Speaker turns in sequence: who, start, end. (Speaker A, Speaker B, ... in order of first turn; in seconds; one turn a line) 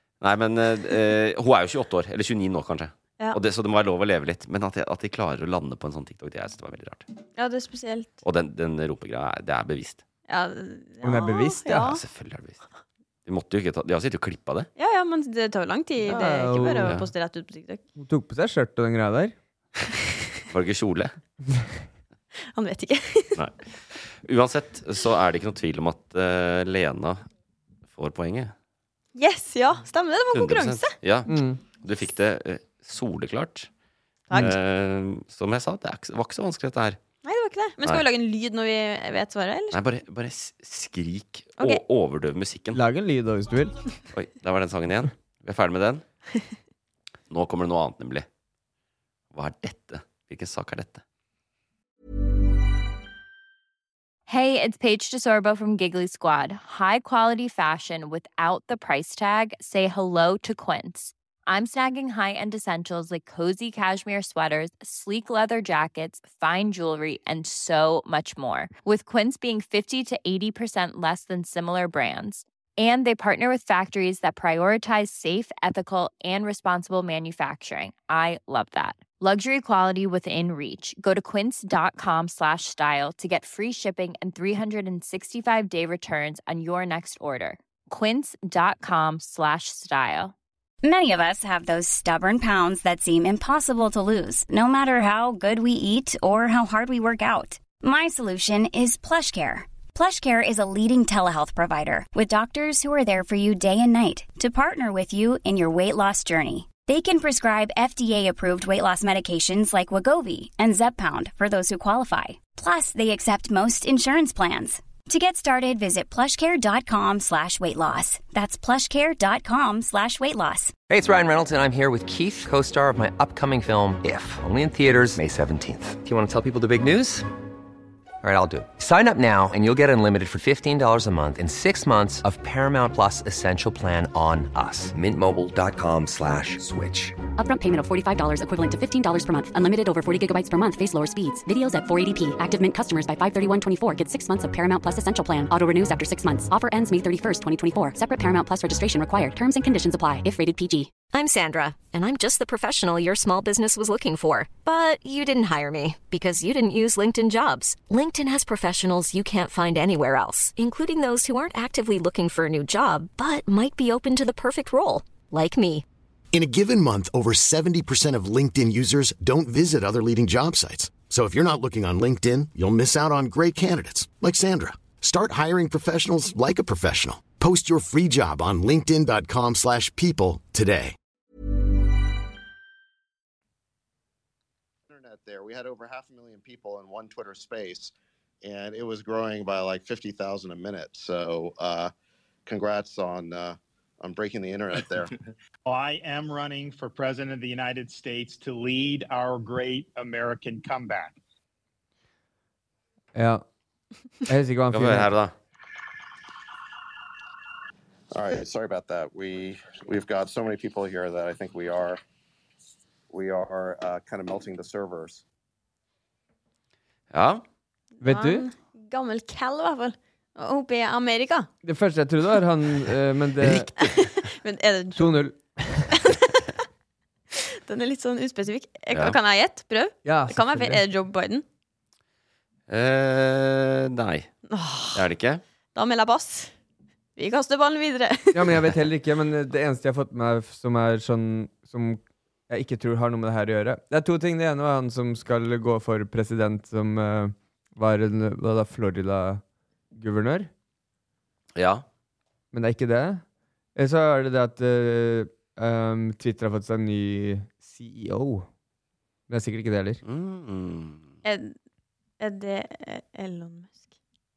Speaker A: 0.2-7.0
Speaker B: 7.3-8.1
Speaker A: 8.2-10.0
Speaker B: 10.3-12.0
Speaker C: 11.0-12.0
Speaker A: 11.9-12.6
Speaker A: 13.2-14.7
Speaker B: 14.8-17.8
Speaker C: 16.0-16.9
Speaker A: 16.8-17.1
Speaker C: 18.0-19.3
Speaker A: 20.5-21.1
Speaker B: 22.5-23.4
Speaker A: 23.4-27.2
Speaker A: 27.9-28.5
Speaker B: 29.1-30.9
Speaker A: 30.3-33.7
Speaker C: 31.3-31.6
Speaker A: 34.3-37.0
Speaker B: 37.2-39.8
Speaker A: 39.7-42.8
Speaker C: 42.7-43.7
Speaker A: 44.1-46.0
Speaker A: 47.3-48.2
Speaker A: 49.3-51.0
Speaker D: 54.3-90.3
Speaker E: 90.8-120.7
Speaker F: 120.9-127.3
Speaker F: 128.2-137.2
Speaker G: 137.4-151.1
Speaker H: 151.1-165.8
Speaker I: 166.3-180.9
Speaker J: 184.9-191.9
Speaker J: 192.4-195.1
Speaker K: 195.6-201.2
Speaker C: 203.1-203.4
Speaker C: 204.3-205.1
Speaker A: 204.7-205.3
Speaker J: 208.1-212.0
Speaker J: 213.1-215.2
Speaker A: 217.1-217.4
Speaker B: 218.0-221.5
Speaker C: 218.0-218.4
Speaker C: 221.6-223.7
Speaker A: 223.4-224.1
Speaker B: 223.8-225.2
Speaker C: 224.9-225.9
Speaker B: 225.9-226.4
Speaker B: 227.3-231.4
Speaker A: 228.9-229.2
Speaker C: 230.0-230.8
Speaker A: 232.7-234.3
Speaker B: 234.5-235.1
Speaker A: 234.9-235.4
Speaker B: 235.7-236.5
Speaker B: 237.2-238.5
Speaker C: 238.3-249.4
Speaker C: 249.9-250.5
Speaker A: 251.5-251.8
Speaker C: 252.5-253.2
Speaker C: 253.8-258.5
Speaker C: 259.3-260.0
Speaker A: 260.0-261.1
Speaker B: 261.2-261.5
Speaker B: 262.2-263.8